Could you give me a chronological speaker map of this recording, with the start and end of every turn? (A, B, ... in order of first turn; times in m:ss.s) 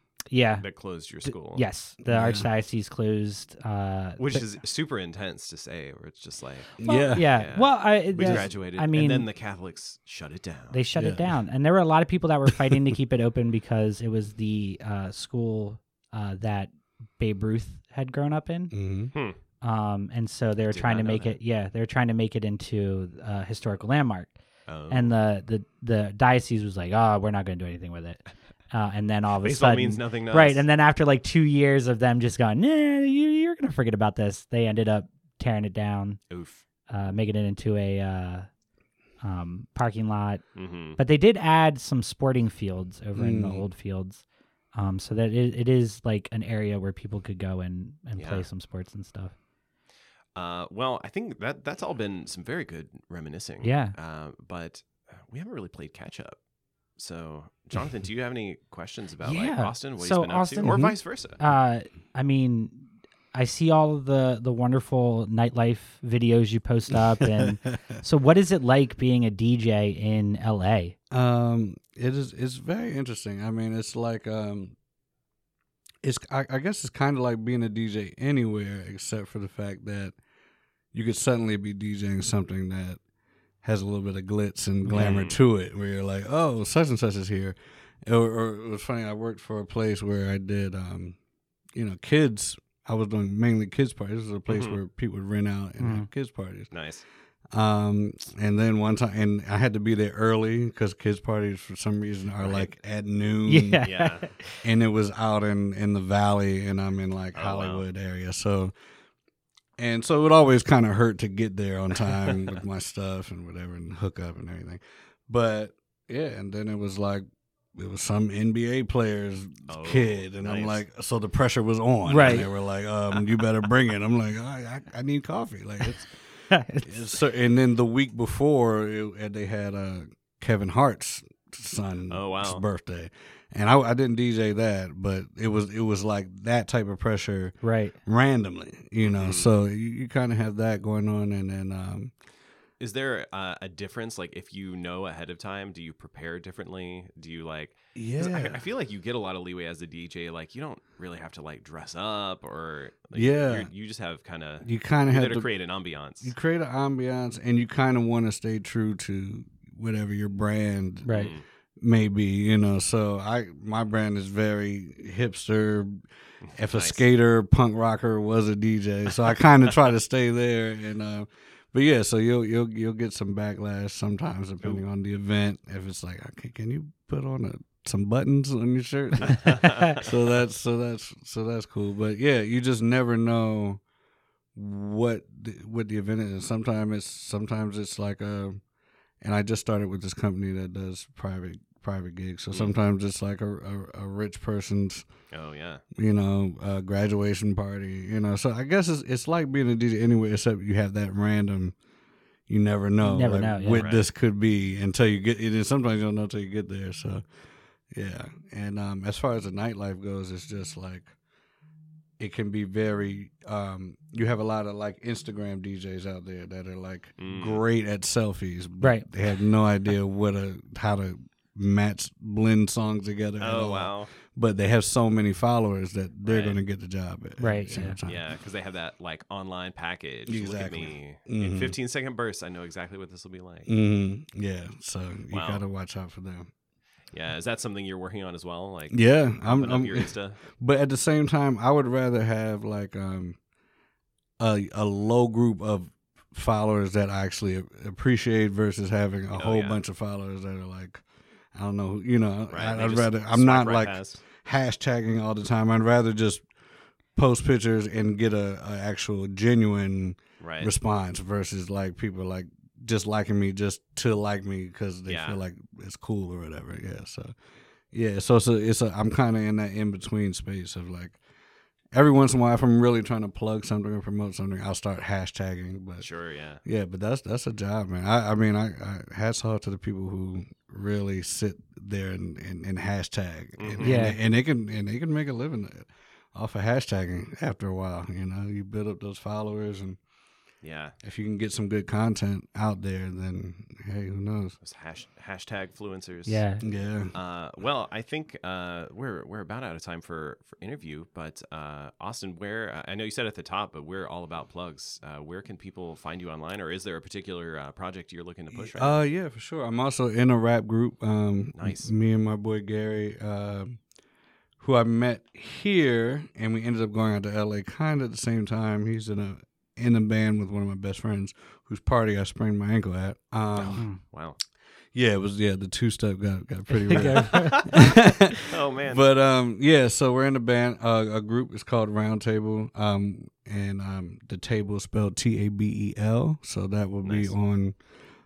0:00.3-0:00.7 A
0:00.6-0:01.6 B
0:01.2-0:04.4 A
0:02.0-0:02.5 C
0:04.2-0:10.8 B
0:06.8-0:07.3 C
0:06.8-0:09.3 A
0:08.2-0:08.5 C
0:10.7-0:18.7 A
0:11.0-0:11.3 C
0:18.7-0:19.1 C
0:19.6-0:24.4 A
0:20.7-0:21.4 B
0:24.7-0:25.2 B
0:24.9-0:36.2 A
0:29.4-0:30.6 B
0:36.3-0:36.6 B
0:36.9-0:38.5 A
0:39.2-0:40.4 A
0:40.6-0:41.0 B
0:41.0-0:49.3 A
0:43.2-0:43.6 C
0:48.2-0:48.5 B
0:50.4-0:56.4 B
0:53.6-0:54.0 A
0:57.0-1:01.4 B
0:59.2-1:11.0 A
1:07.1-1:07.8 C
1:11.1-1:14.8 C
1:16.0-1:20.2 C
1:20.9-1:23.0 C
1:23.6-1:31.2 C
1:24.9-1:25.4 B
1:31.8-1:36.7 C
1:34.5-1:34.8 B
1:35.8-1:36.1 A
1:36.7-1:37.0 B
1:37.5-1:43.8 C
1:42.4-1:42.7 B
1:43.5-1:44.5 A
1:43.8-1:44.3 B
1:44.6-1:48.7 C
1:47.4-1:47.8 B
1:49.8-2:06.1 C
1:59.7-2:00.8 B
2:02.1-2:02.5 A
2:03.1-2:03.4 B
2:06.5-2:07.1 A
2:06.8-2:22.1 C
2:12.1-2:12.6 B
2:17.6-2:18.0 A
2:19.0-2:19.5 B
2:22.8-2:36.3 B
2:28.0-2:28.6 C
2:33.1-2:33.7 C
2:34.6-2:35.5 C
2:36.2-2:41.2 C
2:41.0-2:41.3 A
2:41.1-2:41.4 B
2:41.8-2:46.0 C
2:46.4-2:47.0 B
2:46.6-3:03.8 C
2:59.2-3:00.1 B
3:04.6-3:08.6 C
3:09.2-3:15.1 C
3:15.3-3:15.8 B
3:16.0-3:21.8 C
3:22.5-3:27.2 C
3:23.0-3:23.8 A
3:23.7-3:24.1 B
3:27.9-3:31.1 C
3:32.2-3:48.2 C
3:37.2-3:37.6 B
3:38.8-3:39.1 A
3:43.4-3:44.1 B
3:46.2-3:46.6 B
3:47.4-3:48.0 A
3:48.0-3:53.7 B
3:50.3-3:51.8 C
3:53.7-3:56.5 C
3:55.3-3:55.6 B
3:57.1-4:00.4 B
3:58.9-4:03.4 C
4:04.4-4:11.0 C
4:09.3-4:09.8 B
4:11.5-4:16.4 C
4:12.5-4:14.2 B
4:17.2-4:27.4 C
4:20.4-4:20.7 B
4:25.1-4:25.4 B
4:27.9-4:31.2 C
4:31.9-4:36.1 C
4:36.0-4:36.6 B
4:36.6-4:50.0 C
4:43.6-4:44.0 B
4:43.8-4:44.2 A
4:50.6-4:51.0 B
4:51.0-4:54.6 C
4:54.6-4:56.4 B
4:56.3-4:56.6 A
4:56.6-4:57.1 C
4:57.1-5:09.0 B
5:08.5-5:13.8 C
5:11.6-5:11.9 B
5:14.6-5:23.8 C
5:23.6-5:24.4 B
5:24.9-5:37.8 C
5:26.7-5:27.7 A
5:26.9-5:29.1 B
5:37.0-5:37.4 B